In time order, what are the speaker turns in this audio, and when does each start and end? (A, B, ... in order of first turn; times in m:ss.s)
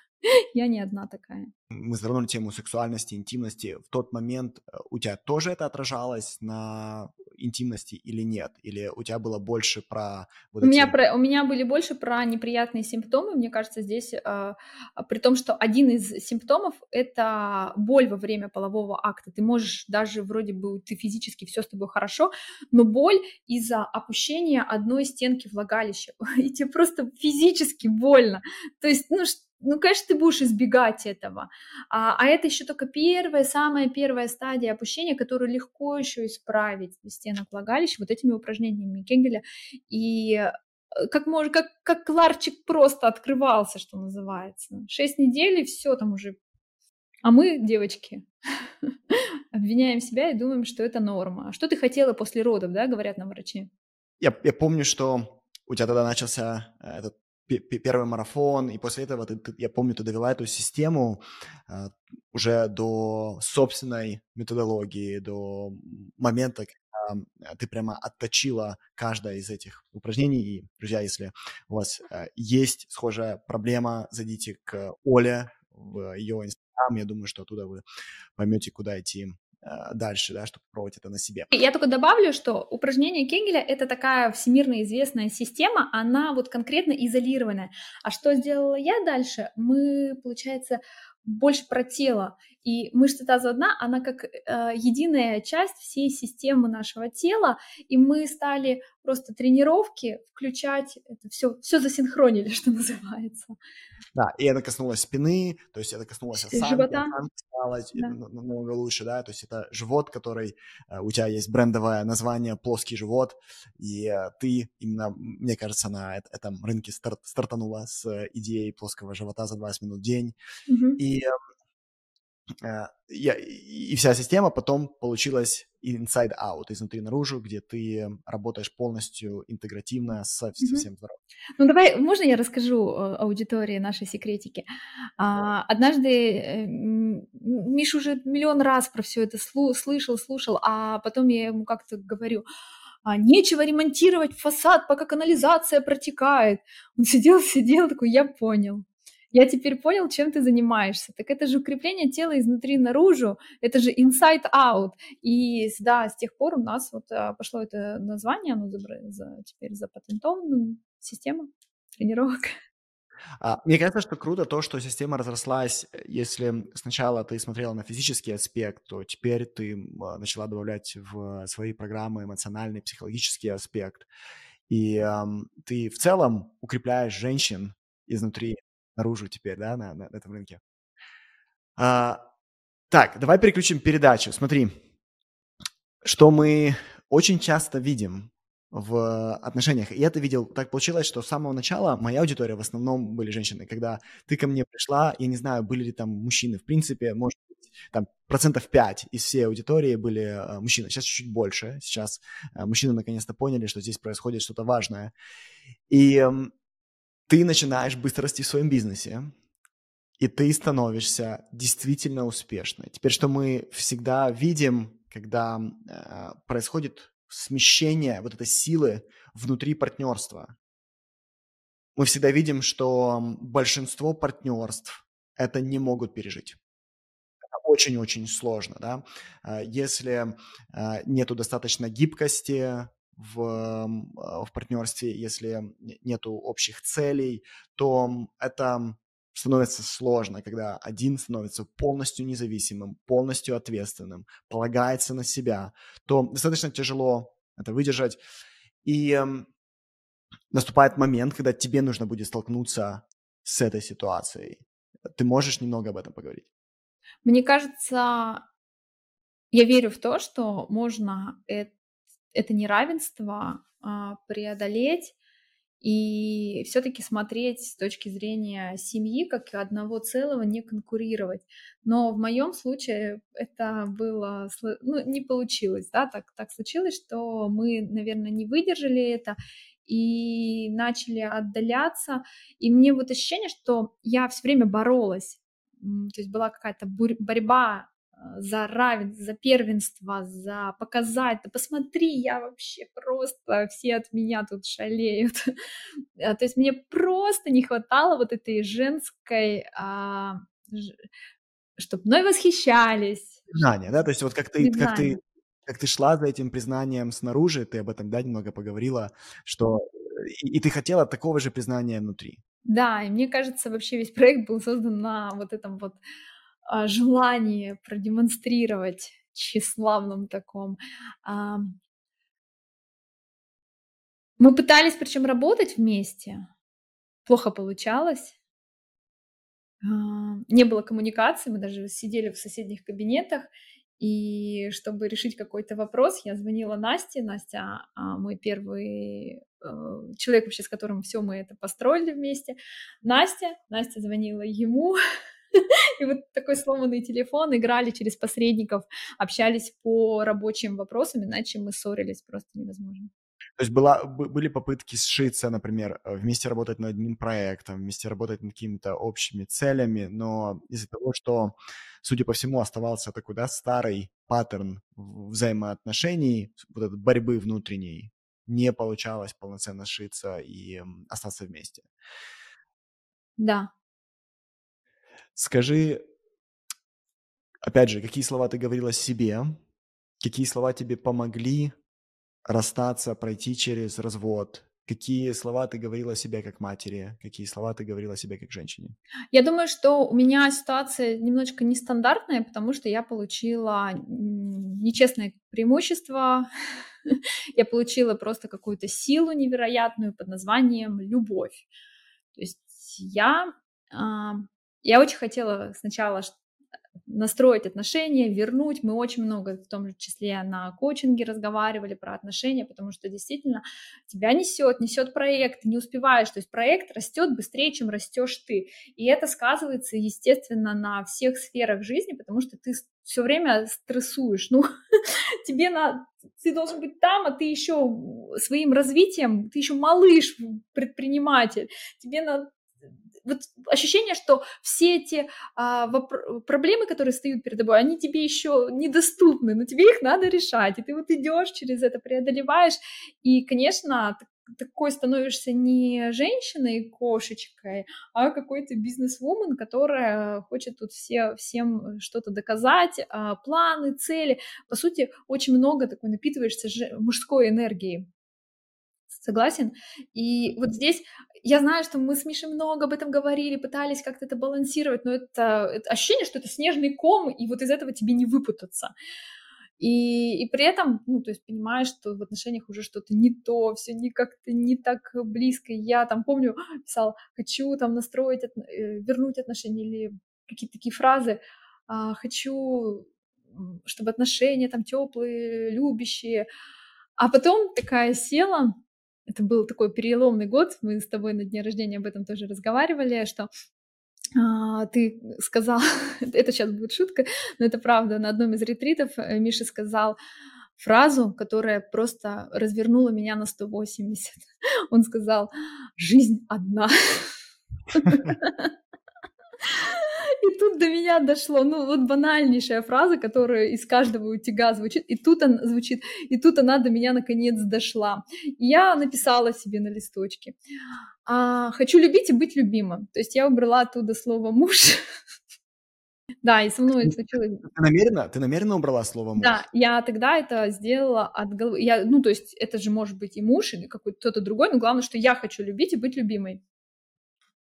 0:00.3-0:01.5 A
0:01.7-0:10.9 B
0:10.6-0:40.5 A
0:41.0-0:46.4 A
0:47.2-0:48.3 A
0:49.5-0:53.7 A
0:54.2-1:17.8 B
1:18.4-1:21.5 B
1:21.5-1:43.5 A
1:44.1-2:00.3 B
1:46.3-1:47.1 A
2:00.7-2:01.0 A
2:01.0-2:01.3 B
2:02.6-2:11.2 B
2:10.6-2:10.8 A
2:11.6-2:14.6 A
2:15.2-2:22.4 A
2:23.0-2:42.5 A
2:43.4-2:54.1 B
2:54.7-3:00.6 B
3:01.8-3:02.2 B
3:02.9-3:04.7 B
3:06.0-3:25.1 B
3:25.9-3:26.5 B
3:27.3-3:29.3 B
3:30.2-3:40.5 B
3:42.0-3:46.6 B
3:47.5-4:08.2 B
4:08.8-4:09.5 B
4:10.5-4:14.6 B
4:15.1-4:16.4 B
4:17.2-4:18.4 A
4:19.5-4:21.7 A
4:22.3-4:25.1 A
4:25.8-4:55.4 A
4:56.2-5:00.9 A
5:01.8-5:03.5 A
5:03.5-5:12.4 B
5:04.6-5:05.2 A
5:12.7-5:16.0 A
5:16.7-5:21.8 A
5:24.4-5:26.5 A
5:27.2-5:28.3 A
5:29.8-5:45.0 A
5:46.0-5:53.1 A
5:53.6-6:11.8 B
6:13.4-6:13.7 A
6:15.4-6:16.0 B
6:17.6-6:19.5 B
6:20.2-6:21.7 B
6:22.5-6:29.0 B
6:29.3-6:36.5 A
6:37.1-6:41.6 A
6:42.4-6:46.3 A
6:47.1-7:04.6 A
7:05.4-7:12.5 A
7:13.2-7:38.1 A
7:39.1-7:48.9 A
7:49.8-8:06.4 A
8:07.2-8:08.8 A
8:09.3-8:13.5 A
8:14.4-8:20.2 A
8:20.8-8:27.3 A
8:27.9-8:28.7 A
8:29.7-8:40.6 A
8:41.2-8:45.0 A
8:46.4-8:47.6 A
8:47.0-8:49.6 B
8:49.4-8:56.6 A